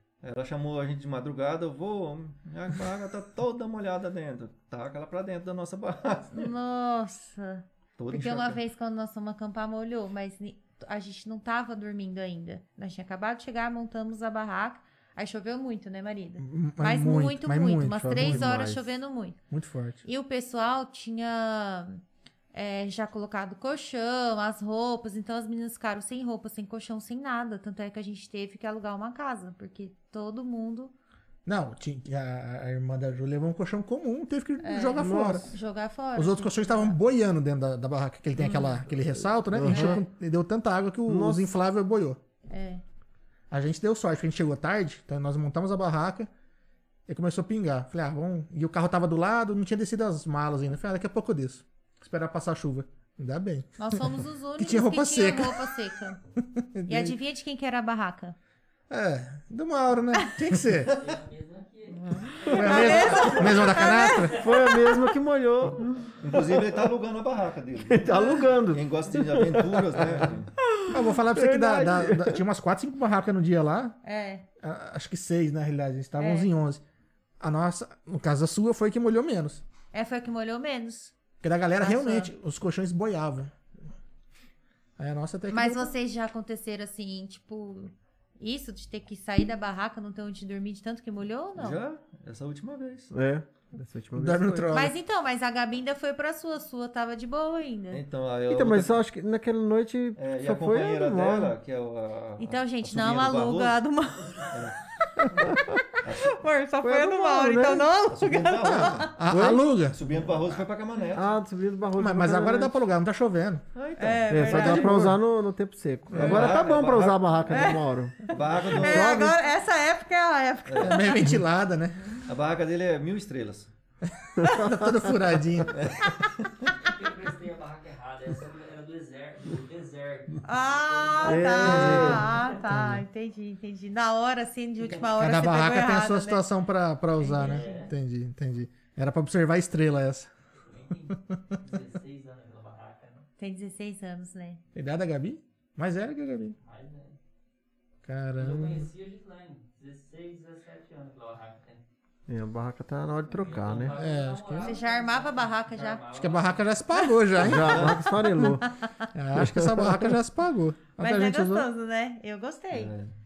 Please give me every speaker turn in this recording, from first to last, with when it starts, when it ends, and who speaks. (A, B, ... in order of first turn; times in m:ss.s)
0:00.2-0:06.5 A
0:06.3-0:19.4 B
0:08.0-0:08.6 A
0:16.4-0:18.7 C
0:18.1-0:18.8 D
0:19.5-0:20.0 C
0:20.0-0:30.9 B
0:31.4-0:35.5 C
0:34.6-0:37.0 B
0:35.0-0:35.5 D
0:36.2-0:42.2 C
0:38.4-0:38.8 B
0:39.5-0:40.0 D
0:39.7-0:40.0 B
0:41.1-0:41.5 D
0:42.5-0:42.8 B
0:43.5-0:46.3 C
0:47.1-0:55.8 C
0:53.8-0:56.2 B
0:56.4-0:57.2 C
0:56.9-0:58.4 B
0:58.9-1:01.0 C
1:00.9-1:04.7 E
1:02.0-1:04.4 B
1:02.5-1:04.4 C
1:04.4-1:06.6 D
1:06.2-1:10.5 A
1:07.9-1:12.4 D
1:10.9-1:14.0 C
1:14.0-1:14.5 B
1:14.6-1:16.8 C
1:16.2-1:16.5 B
1:17.4-1:19.6 C
1:19.9-1:21.2 B
1:21.4-1:23.5 C
1:21.8-1:22.3 B
1:25.0-1:25.9 C
1:25.5-1:31.8 B
1:31.6-1:33.1 A
1:33.1-1:34.8 D
1:34.2-1:35.0 C
1:34.7-1:38.0 B
1:37.9-1:39.0 A
1:38.5-1:41.6 D
1:40.2-1:43.8 A
1:42.4-1:44.6 B
1:44.4-1:44.8 A
1:46.0-1:46.4 A
1:46.1-1:49.2 B
1:46.8-1:47.9 D
1:48.1-1:49.2 A
1:48.6-1:50.0 C
1:49.3-1:49.6 D
1:49.9-1:51.3 A
1:51.1-1:52.8 D
1:52.0-1:53.6 C
1:53.8-1:54.7 A
1:54.0-1:55.0 B
1:54.3-1:59.4 D
1:54.4-1:55.2 C
1:56.1-1:56.6 C
1:56.1-1:57.7 A
1:57.5-1:57.8 B
1:58.3-1:59.3 A
1:58.7-2:01.3 B
2:00.7-2:01.0 A
2:00.8-2:02.1 C
2:02.3-2:03.7 A
2:04.1-2:05.9 C
2:04.4-2:05.1 D
2:05.7-2:06.7 A
2:06.7-2:12.5 E
2:10.4-2:16.4 B
2:11.2-2:12.3 D
2:11.6-2:13.0 C
2:15.2-2:20.3 C
2:17.2-2:17.8 B
2:17.4-2:17.9 E
2:20.6-2:23.2 E
2:23.4-2:24.6 B
2:24.8-2:26.6 C
2:26.6-2:27.2 E
2:28.0-2:28.9 C
2:28.4-2:31.8 E
2:32.3-2:34.0 D
2:33.3-2:36.7 E
2:34.0-2:34.7 C
2:34.6-2:36.0 B
2:36.2-2:38.0 C
2:37.4-2:38.7 D
2:37.5-2:38.1 A
2:38.4-2:39.1 B
2:39.1-2:41.7 C
2:39.4-2:40.1 D
2:41.0-2:42.9 B
2:42.7-2:43.1 A